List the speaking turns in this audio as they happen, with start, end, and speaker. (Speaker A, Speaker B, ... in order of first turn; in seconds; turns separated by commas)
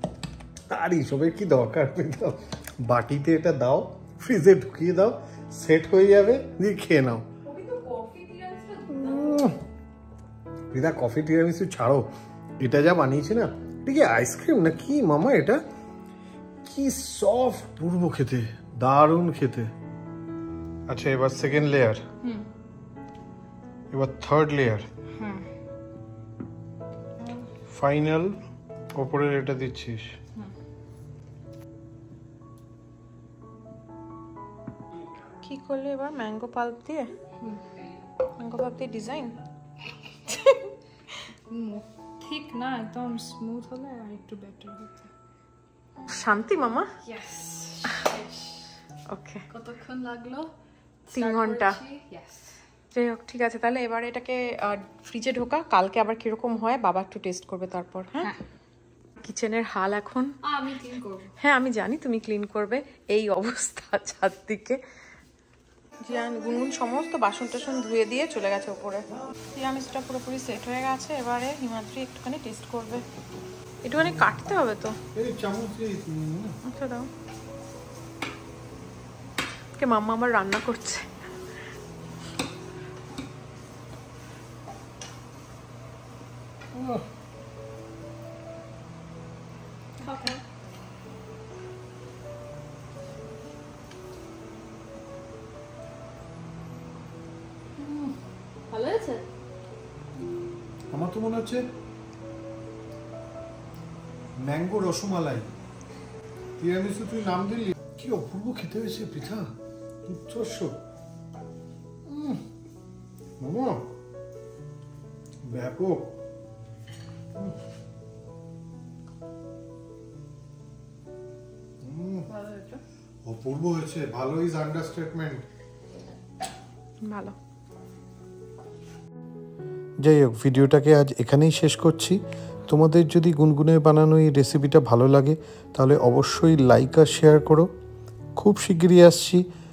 Speaker A: 0.7-7.2, Speaker B: 7.5-9.6, Speaker A: 8.9-9.6, Speaker A: 10.7-12.1, Speaker A: 12.6-15.6, Speaker A: 16.7-19.7, Speaker A: 20.9-22.0, Speaker A: 23.9-24.9, Speaker C: 25.1-25.5, Speaker A: 27.7-28.4, Speaker A: 28.9-30.1, Speaker B: 35.4-37.1, Speaker C: 37.4-37.9, Speaker B: 38.4-39.4, Speaker B: 40.3-40.6, Speaker C: 41.5-45.1, Speaker B: 46.1-46.9, Speaker C: 47.0-48.8, Speaker B: 49.1-49.5, Speaker C: 49.5-50.5, Speaker C: 51.1-52.5, Speaker B: 51.2-51.8, Speaker B: 52.9-58.3, Speaker B: 59.2-60.3, Speaker C: 60.5-61.3, Speaker B: 61.4-64.8, Speaker B: 66.0-73.0, Speaker B: 73.8-74.9, Speaker A: 74.0-74.2, Speaker A: 75.2-76.6, Speaker B: 76.7-77.1, Speaker B: 79.8-81.0, Speaker A: 86.7-87.0, Speaker C: 90.0-90.3, Speaker B: 90.0-90.4, Speaker B: 98.7-99.1, Speaker A: 100.9-101.6, Speaker A: 104.4-105.5, Speaker A: 106.6-109.5, Speaker A: 110.1-110.8, Speaker A: 112.1-112.4, Speaker A: 113.4-113.9, Speaker A: 115.5-116.1, Speaker A: 121.8-122.3, Speaker C: 122.3-122.8, Speaker A: 123.2-125.4, Speaker B: 127.1-127.3, Speaker A: 130.0-137.7, Speaker A: 138.4-139.4